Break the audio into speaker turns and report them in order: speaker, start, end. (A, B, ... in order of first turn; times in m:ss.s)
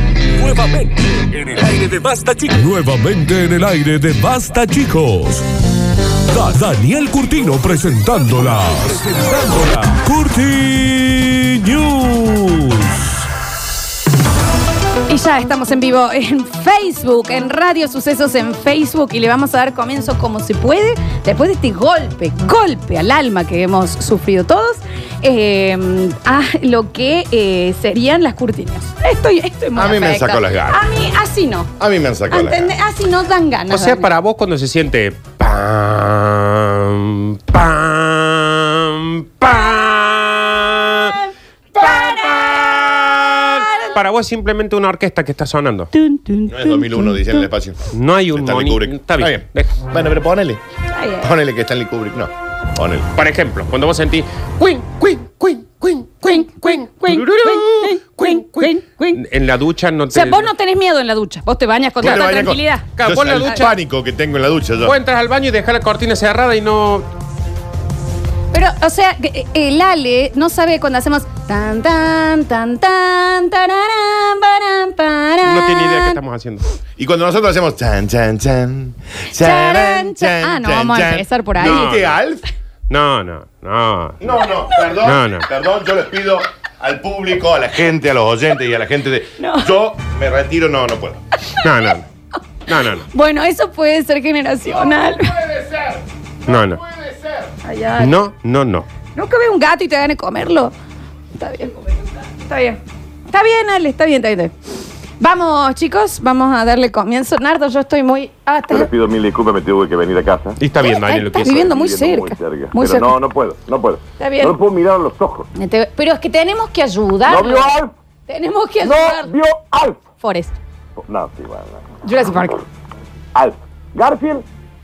0:00.4-0:05.5 A
0:06.3-0:13.2 A
0:15.1-0:31.7 B
0:29.8-0:30.8 C
0:31.8-0:32.8 C
0:32.3-0:34.1 B
0:33.7-0:41.2 D
0:41.8-0:43.9 B
0:42.0-0:45.9 D
0:46.0-0:47.5 B
0:46.5-0:50.6 C
0:47.9-0:49.8 D
0:50.9-0:51.3 B
0:51.2-0:53.1 C
0:53.2-1:00.5 D
0:56.2-0:59.2 B
1:00.1-1:02.9 B
1:02.0-1:05.0 C
1:02.0-1:02.3 D
1:03.0-1:03.8 D
1:04.8-1:07.1 D
1:08.5-1:16.2 B
1:15.4-1:16.6 D
1:17.0-1:22.4 C
1:19.3-1:21.9 B
1:21.6-1:22.1 D
1:22.9-1:24.2 D
1:24.2-1:31.2 C
1:25.0-1:25.5 D
1:29.4-1:29.7 B
1:31.6-1:32.1 D
1:32.7-1:33.1 D
1:33.0-1:35.4 B
1:34.8-1:37.5 C
1:36.5-1:36.8 D
1:37.6-1:38.2 B
1:38.0-1:38.9 D
1:39.1-1:40.7 B
1:41.4-1:44.5 B
1:45.2-1:48.9 B
1:48.7-1:50.6 E
1:50.6-1:51.7 D
1:50.8-1:53.2 B
1:51.5-1:55.5 E
1:54.2-1:54.6 B
1:55.6-1:59.4 B
1:57.3-1:57.9 E
1:58.8-2:00.0 E
2:00.2-2:00.6 B
2:01.0-2:01.8 E
2:02.0-2:02.6 B
2:03.4-2:04.4 E